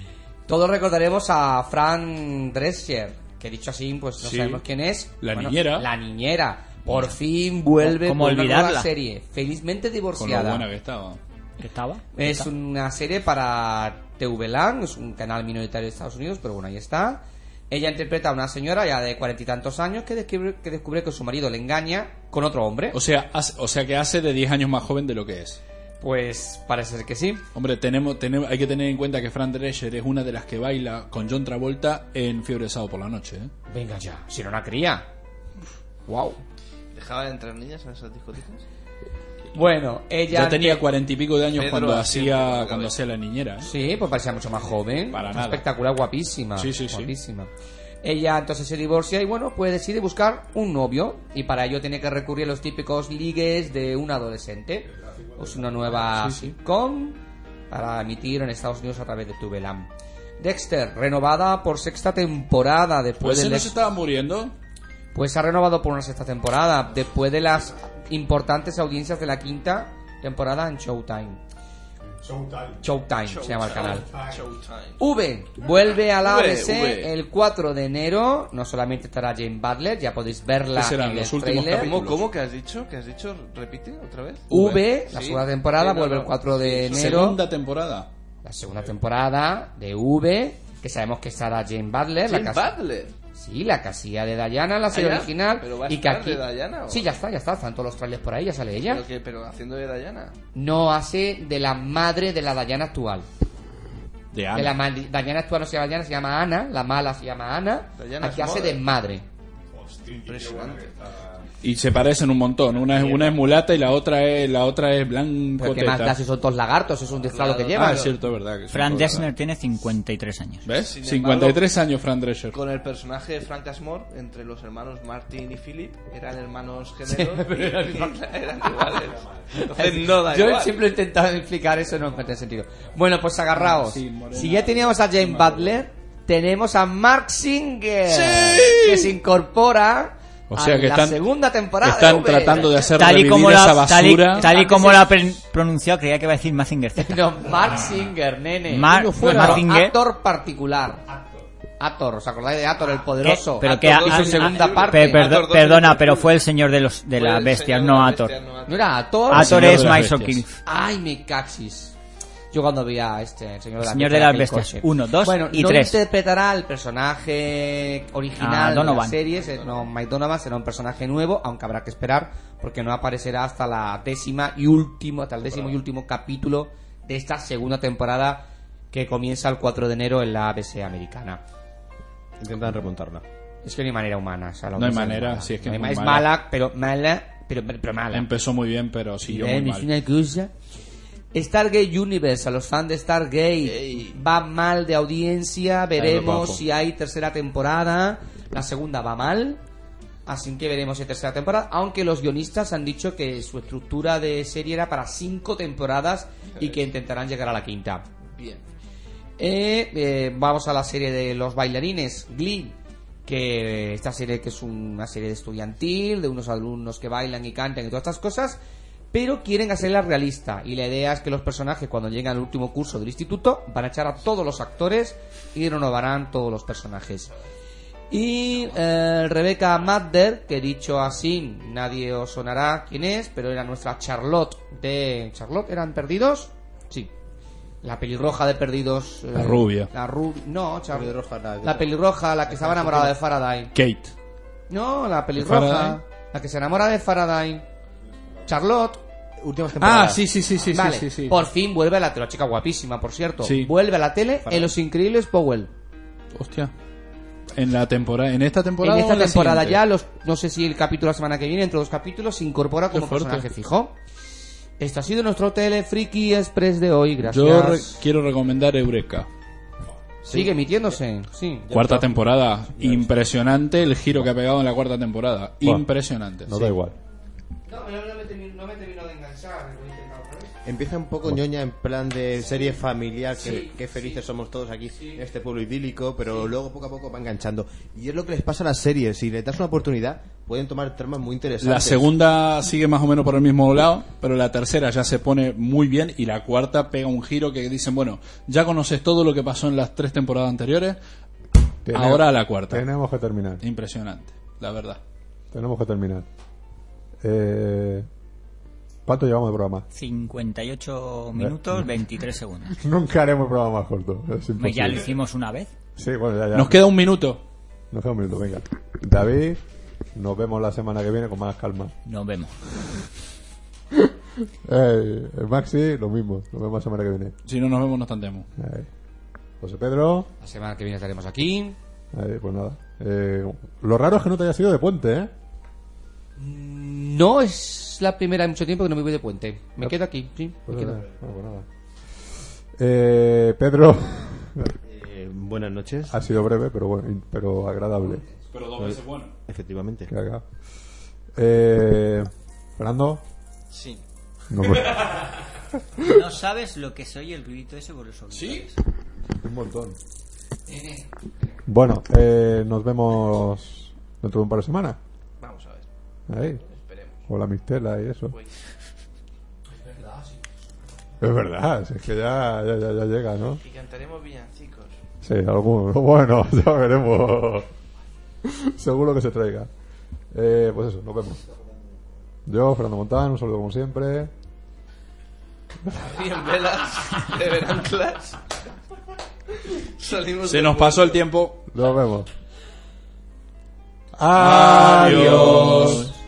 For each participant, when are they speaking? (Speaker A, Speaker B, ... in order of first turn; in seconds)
Speaker A: 0.5-10.7, 12.2-23.0, 26.0-27.4, 33.7-35.1, 36.1-36.4, 39.5-40.8, 43.6-47.5, 48.0-63.7, 65.1-71.4, 72.8-74.1, 75.0-81.9, 84.5-87.4, 88.4-92.7, 93.4-99.0, 100.5-103.3, 104.5-109.2, 115.6-118.2, 127.1-128.1, 128.7-128.9, 129.5-143.0, 144.3-145.4, 147.0-151.0, 151.8-155.5, 158.7-160.0, 160.7-161.9, 162.5-181.4, 183.6-188.3, 189.3-190.5, 191.3-199.6, 200.3-208.1, 209.4-218.6, 219.1-227.3, 228.1-237.1, 237.8-241.1, 241.6-243.7, 244.7-247.7, 248.5-249.0, 250.7-255.7, 258.8-263.9, 264.8-268.0, 270.3-272.1, 277.7-280.5, 283.3-284.2, 284.9-285.2, 330.4-331.8, 336.4-341.0, 360.7-361.1, 369.9-370.4
Speaker B: 4.2-4.6, 5.2-5.9, 10.2-11.2, 22.9-25.6, 27.5-33.5, 40.3-43.7, 45.1-45.6, 46.6-47.1, 56.2-56.5, 63.2-64.6, 80.7-82.2, 84.5-84.8, 86.9-88.1, 104.3-104.8, 111.6-116.2, 117.7-119.3, 120.7-122.6, 133.5-135.8, 138.1-139.1, 140.5-141.2, 141.8-144.5, 159.3-160.4, 184.8-186.3, 188.1-189.9, 196.0-196.6, 239.3-239.9, 243.7-244.1, 245.4-246.0, 249.8-251.4, 253.4-253.7, 256.3-256.7, 257.5-259.8, 262.9-263.5, 267.3-269.3, 271.7-276.7, 291.6-301.0, 301.9-302.9, 303.6-305.0, 316.5-317.4, 327.4-328.5, 348.5-349.4, 358.3-358.7, 390.4-391.6, 394.4-396.1
Speaker C: 7.8-8.9, 11.6-12.5, 118.7-120.7, 143.0-147.3, 148.7-150.0, 153.2-158.4, 159.3-160.6, 163.8-166.0, 168.4-169.2, 309.9-312.8, 314.6-315.7, 322.1-322.6, 356.0-358.8
Speaker D: 36.9-38.6, 41.5-43.0, 73.2-75.0, 76.1-77.1, 81.7-87.2, 92.3-93.1, 94.9-97.1, 98.8-100.4, 108.0-108.8, 110.0-110.9, 113.0-113.3, 117.2-118.1, 120.8-121.7, 122.5-130.8, 153.6-156.3, 157.1-158.9, 193.6-194.2, 206.6-206.8, 208.3-208.6, 353.7-354.0, 365.4-365.9, 366.4-367.2, 368.3-368.6, 373.6-375.0, 385.9-388.4, 389.6-391.2
Speaker E: 54.9-56.3, 72.1-72.9, 109.8-111.4, 275.6-275.9, 276.5-276.9, 301.9-303.6, 305.5-306.3, 307.2-308.1, 309.1-309.9, 311.4-311.9, 312.8-315.1, 316.0-316.8, 317.9-319.6, 320.1-321.9, 324.6-327.3, 328.6-328.9, 329.6-330.3, 332.1-335.3, 340.7-344.8, 346.1-348.2, 350.1-350.4, 351.4-353.2, 354.5-355.4, 359.4-360.0, 361.7-365.0, 366.3-366.6, 367.3-368.3, 371.2-373.6, 375.2-377.7, 378.4-379.7, 380.3-381.4, 382.5-384.3, 391.7-392.3, 394.2-396.1
Speaker F: 182.4-183.2, 240.9-241.9, 242.5-243.1, 249.4-250.2, 254.4-254.7, 270.2-270.6, 271.7-272.1, 280.6-292.1, 344.9-346.1, 348.8-350.1